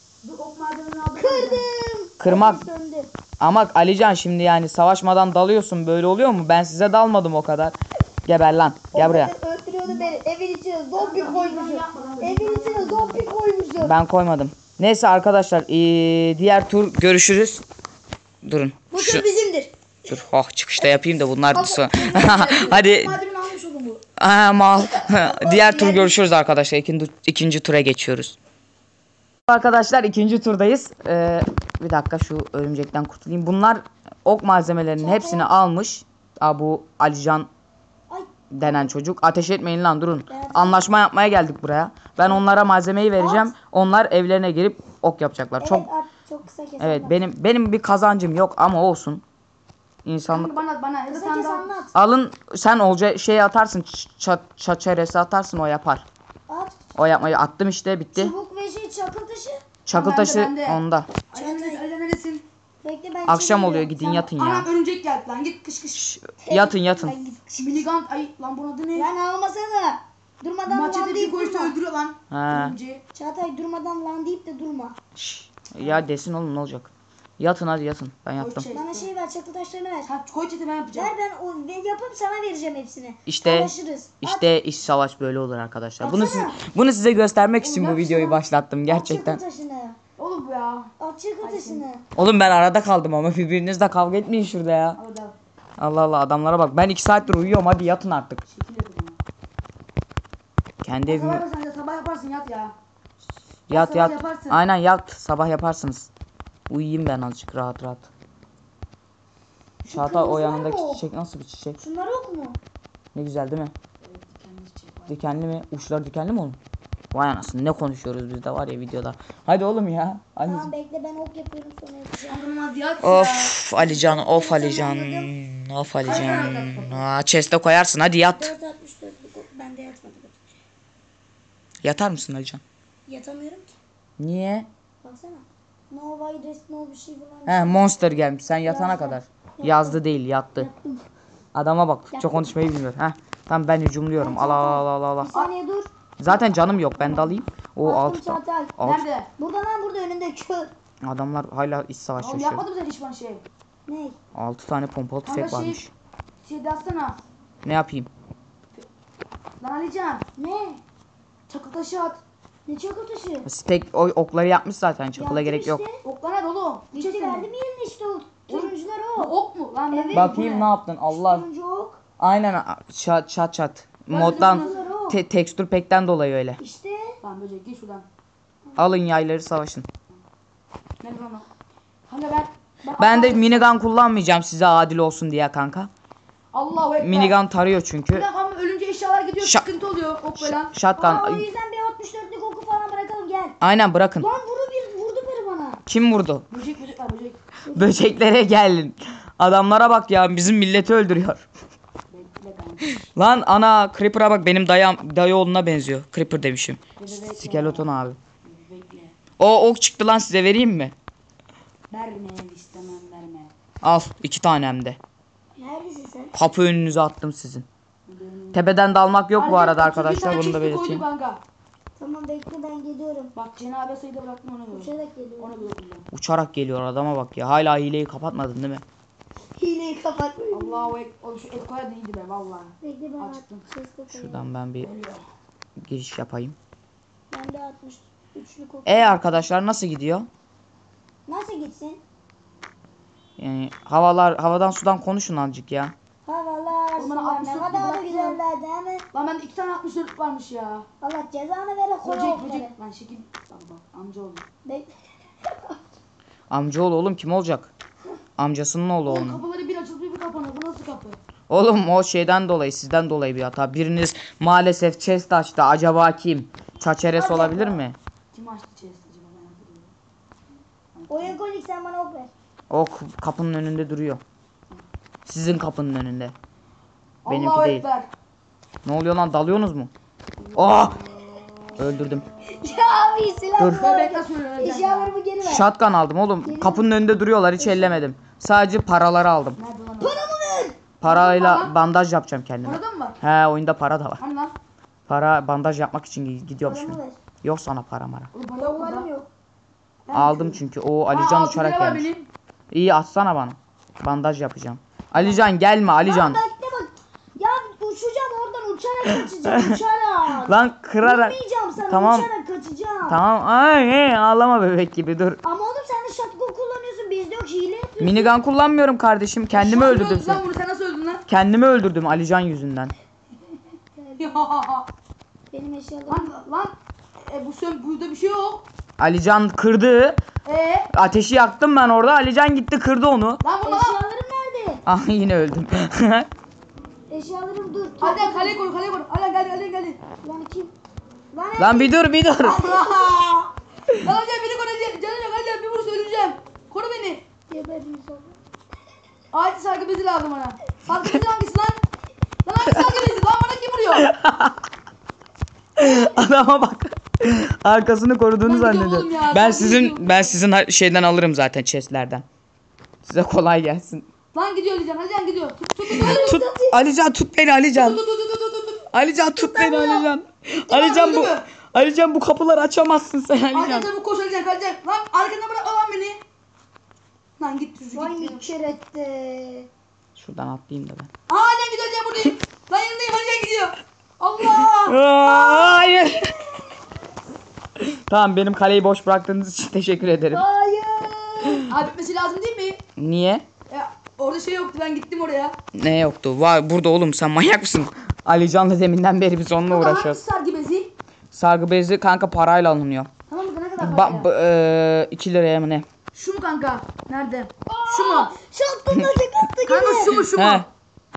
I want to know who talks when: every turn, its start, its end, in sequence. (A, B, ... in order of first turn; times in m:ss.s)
0:00.2-0:01.6 A
0:01.2-0:03.1 B
0:02.2-0:02.6 C
0:03.4-0:09.3 C
0:08.9-0:13.9 B
0:09.8-0:10.2 A
0:10.9-0:13.3 A
0:13.8-0:17.6 C
0:18.4-0:19.2 C
0:18.9-0:19.7 B
0:20.1-0:23.2 C
0:21.5-0:24.0 A
0:24.2-0:28.4 C
0:25.2-0:26.1 A
0:29.5-0:37.5 C
0:35.0-0:35.5 B
0:38.1-0:38.9 B
0:38.5-0:45.9 C
0:40.3-0:40.9 B
0:43.2-0:43.5 B
0:45.6-0:47.2 B
0:46.8-0:49.2 C
0:50.0-0:50.6 C
0:50.3-0:51.8 A
0:51.1-0:51.9 B
0:51.9-0:56.1 C
0:56.5-0:56.8 B
0:56.9-0:58.3 C
0:58.1-0:59.6 B
0:59.9-1:01.1 C
0:59.9-1:02.4 A
1:01.3-1:01.8 B
1:02.8-1:04.3 B
1:03.3-1:04.7 C
1:04.2-1:06.0 A
1:05.9-1:07.1 C
1:06.4-1:07.8 B
1:07.6-1:09.1 A
1:08.9-1:11.8 B
1:10.7-1:13.0 A
1:12.3-1:12.8 C
1:13.1-1:15.0 B
1:15.2-1:18.7 C
1:18.4-1:19.1 A
1:18.7-1:20.1 B
1:20.0-1:21.1 A
1:20.9-1:24.5 B
1:23.2-1:29.4 C
1:26.0-1:26.6 B
1:27.6-1:28.4 A
1:28.9-1:30.0 B
1:30.2-1:31.8 A
1:31.0-1:32.0 B
1:32.2-1:35.0 C
1:35.0-1:35.4 A
1:35.8-1:38.4 C
1:38.5-1:39.2 A
1:40.8-1:41.4 C
1:41.0-1:42.7 A
1:43.7-1:46.1 C
1:43.7-1:44.6 A
1:46.7-1:48.1 C
1:49.9-1:51.8 C
1:49.9-1:51.0 B
1:51.8-1:52.6 B
1:53.1-1:53.7 C
1:54.0-1:55.2 A
1:55.1-1:56.6 C
1:57.1-2:00.7 C
2:00.4-2:02.4 B
2:02.3-2:03.6 A
2:03.0-2:08.5 C
2:03.8-2:05.3 B
2:06.0-2:07.0 A
2:06.0-2:06.7 B
2:08.4-2:10.4 B
2:11.8-2:12.6 C
2:13.1-2:13.7 B
2:14.2-2:14.7 C
2:15.0-2:17.8 B
2:17.4-2:20.7 C
2:18.6-2:20.0 B
2:20.6-2:21.0 B
2:21.6-2:25.3 C
2:22.1-2:22.5 B
2:24.2-2:25.9 B
2:26.2-2:29.0 C
2:27.0-2:27.4 A
2:27.8-2:28.8 B
2:28.8-2:29.3 A
2:29.4-2:30.7 B
2:31.0-2:32.6 C
2:32.2-2:33.4 A
2:33.9-2:34.2 B
2:34.4-2:35.9 C
2:35.2-2:35.8 A
2:36.4-2:37.2 A
2:37.6-2:38.1 C
2:39.6-2:40.2 A
2:40.4-2:40.8 B
2:41.5-2:42.2 A
2:42.7-2:43.5 B
2:43.4-2:45.8 C
2:45.1-2:46.0 B
2:46.0-2:47.5 A
2:46.9-2:49.4 B
2:48.5-2:50.7 A
2:49.9-2:50.4 B
2:50.1-2:51.4 C
2:51.1-2:52.0 B
2:52.2-2:56.6 C
2:54.1-2:54.8 A
2:54.2-2:55.2 B
2:56.6-2:57.2 B
2:57.2-2:58.1 A
2:58.8-2:59.9 C
3:01.0-3:01.5 A
3:02.1-3:03.7 A
3:03.0-3:05.9 C
3:06.5-3:07.4 A
3:07.0-3:08.3 C
3:08.1-3:10.7 A
3:09.4-3:09.6 C
3:10.4-3:11.4 C
3:11.0-3:13.6 B
3:13.6-3:14.3 C
3:14.2-3:15.8 B
3:15.9-3:16.4 C
3:16.5-3:17.4 A
3:17.6-3:18.0 B
3:17.7-3:21.5 C
3:22.1-3:23.1 A
3:23.1-3:28.2 C
3:27.0-3:27.9 A
3:28.4-3:29.1 A
3:29.4-3:30.9 C
3:31.9-3:33.5 A
3:33.8-3:35.0 C
3:35.6-3:36.3 B
3:36.3-3:37.6 C
3:38.1-3:38.7 A
3:38.5-3:41.0 C
3:39.3-3:41.4 A
3:42.0-3:43.3 B
3:43.4-3:46.1 A
3:44.7-3:45.7 B
3:46.1-3:48.8 C
3:49.6-3:51.0 B
3:50.5-3:53.7 A
3:52.8-3:54.5 B
3:54.1-3:54.9 C
3:54.8-3:55.2 A
3:55.8-3:56.6 C
3:57.3-3:59.5 B
3:58.9-4:00.3 C
4:01.3-4:02.0 B
4:03.4-4:05.9 C
4:06.2-4:09.1 B
4:07.0-4:08.4 A
4:09.1-4:10.9 A
4:11.0-4:12.7 B
4:12.0-4:14.4 A
4:14.6-4:14.9 B
4:15.5-4:15.8 B
4:16.5-4:17.7 C
4:18.4-4:19.4 C
4:19.1-4:21.2 A
4:21.5-4:28.0 C
4:27.1-4:27.8 B
4:28.3-4:29.9 A
4:31.0-4:31.4 A
4:31.1-4:32.3 B
4:32.7-4:34.2 C
4:35.2-4:36.3 C
4:37.2-4:38.1 A
4:37.3-4:37.8 C
4:38.8-4:39.9 C
4:40.5-4:41.0 C
4:41.8-4:42.2 C
4:42.5-4:45.7 B
4:43.6-4:43.8 C
4:43.7-4:45.1 A
4:45.4-4:49.6 C
4:46.4-4:46.9 B
4:47.6-4:47.9 B
4:49.6-4:50.2 A
4:50.0-4:50.8 B
4:51.0-4:54.2 C
4:51.0-4:51.8 A
4:52.6-4:53.2 A
4:54.2-4:54.5 A
4:55.1-4:58.3 C
4:56.6-4:57.2 B
4:58.3-4:59.1 A
4:58.6-4:59.3 B
5:00.1-5:02.3 A
5:00.1-5:02.1 C
5:02.7-5:06.4 C
5:05.1-5:05.5 A
5:06.0-5:13.2 B
5:09.4-5:09.8 C
5:10.4-5:11.4 C
5:11.9-5:12.3 C
5:13.1-5:15.4 C
5:15.4-5:18.3 B
5:18.0-5:20.4 C
5:19.5-5:21.2 A
5:21.3-5:22.9 C
5:24.0-5:24.2 B
5:24.2-5:24.9 A
5:25.5-5:26.4 B
5:26.1-5:28.6 A
5:29.0-5:30.2 C
5:30.5-5:30.9 A
5:30.9-5:33.4 C
5:33.4-5:34.0 A
5:33.6-5:34.8 B
5:34.9-5:36.3 C
5:37.1-5:38.6 B
5:38.0-5:40.0 A
5:40.2-5:40.7 B
5:41.3-5:43.5 B
5:41.6-5:42.6 C
5:42.6-5:43.2 A
5:43.9-5:47.2 A
5:47.5-5:48.4 B
5:49.3-5:51.8 A
5:52.4-5:54.1 A
5:54.0-5:54.6 C
5:55.8-6:02.2 C
5:58.4-6:00.4 A
6:03.0-6:04.1 C
6:04.3-6:06.4 A
6:05.9-6:06.8 B
6:06.0-6:08.0 C
6:07.7-6:08.9 A
6:08.9-6:13.9 C
6:09.4-6:10.1 B
6:10.7-6:11.5 A
6:13.5-6:16.2 A
6:17.4-6:18.7 A
6:17.9-6:19.7 B
6:20.1-6:21.1 C
6:21.3-6:25.8 A
6:24.8-6:26.3 C
6:25.3-6:26.3 B
6:28.1-6:30.4 C
6:30.3-6:31.6 B
6:31.6-6:32.8 A
6:33.0-6:33.5 C
6:33.7-6:35.6 A
6:35.7-6:40.2 C
6:39.6-6:40.9 A
6:41.3-6:43.1 C
6:43.3-6:44.3 A
6:43.8-6:45.9 C
6:46.1-6:48.4 A
6:47.7-6:50.3 B
6:49.6-6:50.7 A
6:50.4-6:50.7 C